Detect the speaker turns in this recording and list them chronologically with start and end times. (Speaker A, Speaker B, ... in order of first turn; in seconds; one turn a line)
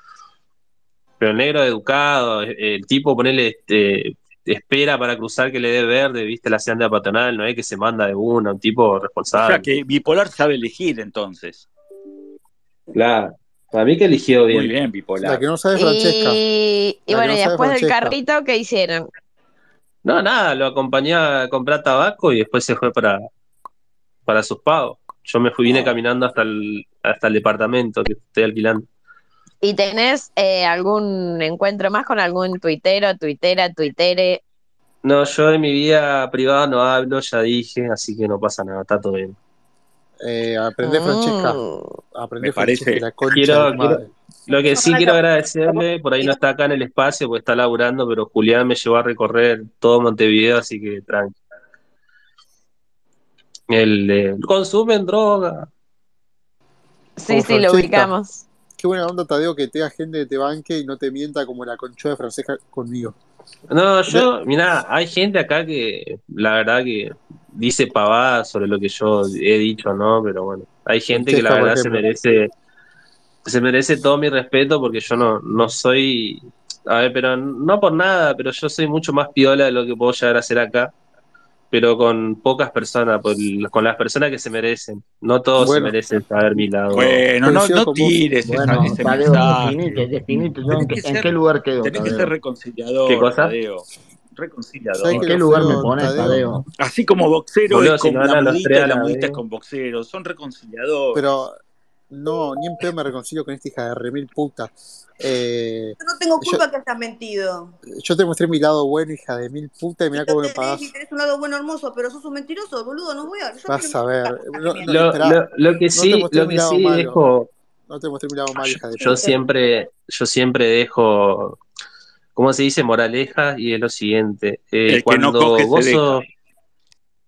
Speaker A: 1.2-9.7
Speaker B: 9.3-11.7
Speaker A: 12.9-14.7
Speaker B: 14.5-15.4
Speaker C: 15.2-16.4
Speaker D: 15.7-19.1
Speaker C: 17.1-18.2
Speaker A: 20.0-23.2
Speaker A: 24.2-28.9
Speaker D: 29.6-34.4
Speaker A: 35.0-39.4
Speaker C: 40.2-41.6
Speaker D: 40.8-41.9
Speaker C: 42.1-44.1
Speaker B: 42.4-43.1
Speaker A: 43.3-51.3
Speaker A: 53.7-55.7
Speaker D: 57.2-58.4
Speaker C: 57.3-58.1
Speaker C: 58.8-63.1
Speaker A: 63.7-72.5
Speaker C: 71.1-72.0
Speaker A: 73.4-80.9
Speaker A: 81.7-87.2
Speaker C: 85.6-85.9
Speaker B: 86.9-91.3
Speaker C: 87.4-88.2
Speaker E: 88.4-92.3
Speaker B: 91.8-95.2
Speaker A: 93.1-93.6
Speaker C: 95.0-96.5
Speaker E: 95.1-96.7
Speaker B: 96.8-101.2
Speaker A: 97.7-99.4
Speaker C: 101.1-101.6
Speaker C: 102.1-106.6
Speaker F: 106.0-107.8
Speaker C: 107.8-110.9
Speaker F: 110.1-115.0
Speaker C: 113.7-115.4
Speaker A: 114.9-117.5
Speaker C: 115.9-117.2
Speaker C: 117.9-119.3
Speaker A: 118.6-121.6
Speaker A: 122.3-126.2
Speaker B: 124.9-126.2